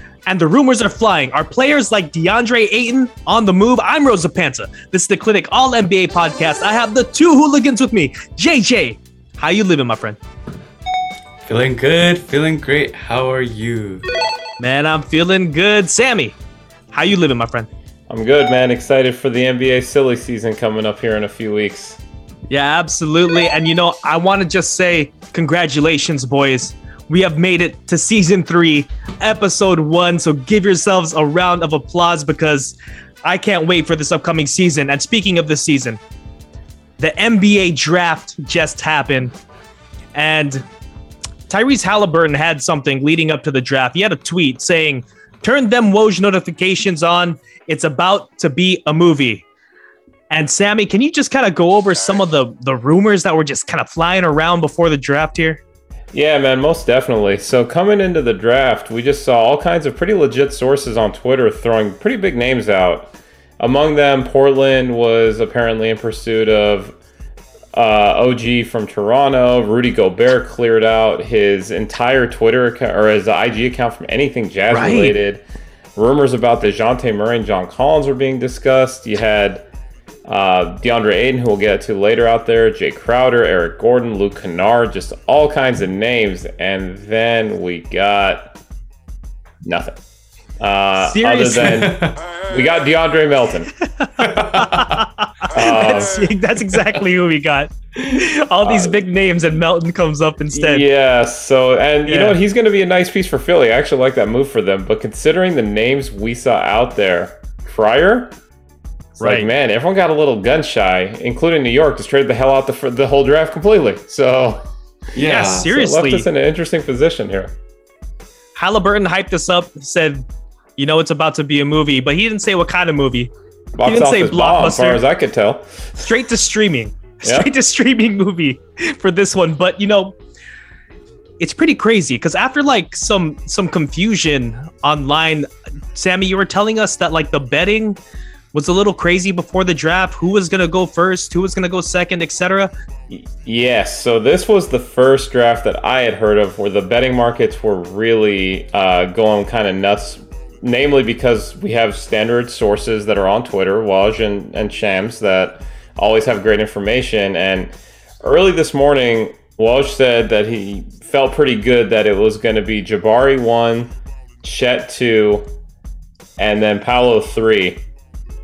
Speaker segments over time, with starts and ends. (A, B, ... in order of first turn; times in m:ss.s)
0:00.3-0:10.2 A
0:11.5-0:14.0 B
0:14.6-0:16.4 A
0:16.9-0:17.7 A
0:18.1-0:22.0 C
0:22.5-0:36.0 A
0:37.0-0:39.3 A
0:40.1-0:40.6 A
0:41.5-0:49.5 A
0:50.3-0:55.6 A
0:56.1-1:07.0 C
1:07.7-1:15.4 C
1:14.7-1:15.2 A
1:16.0-1:19.6 C
1:20.3-1:28.5 C
1:29.6-1:30.0 C
1:30.6-1:33.7 C
1:31.0-1:31.8 A
1:31.6-1:32.2 B
1:33.8-1:40.8 A
1:34.2-1:35.0 B
1:35.5-1:36.3 C
1:38.6-1:39.0 C
1:40.5-1:48.3 C
1:42.1-1:42.4 A
1:49.2-1:49.5 A
1:49.2-1:54.6 C
1:55.1-1:55.7 B
1:55.2-1:56.3 A
1:55.6-1:57.5 C
1:58.6-2:00.2 A
2:00.8-2:03.3 A
2:03.8-2:06.0 C
2:03.8-2:05.0 A
2:06.0-2:10.2 A
2:07.2-2:07.5 C
2:11.4-2:18.0 A
2:18.5-2:22.7 A
2:23.1-2:45.4 C
2:46.4-2:47.8 C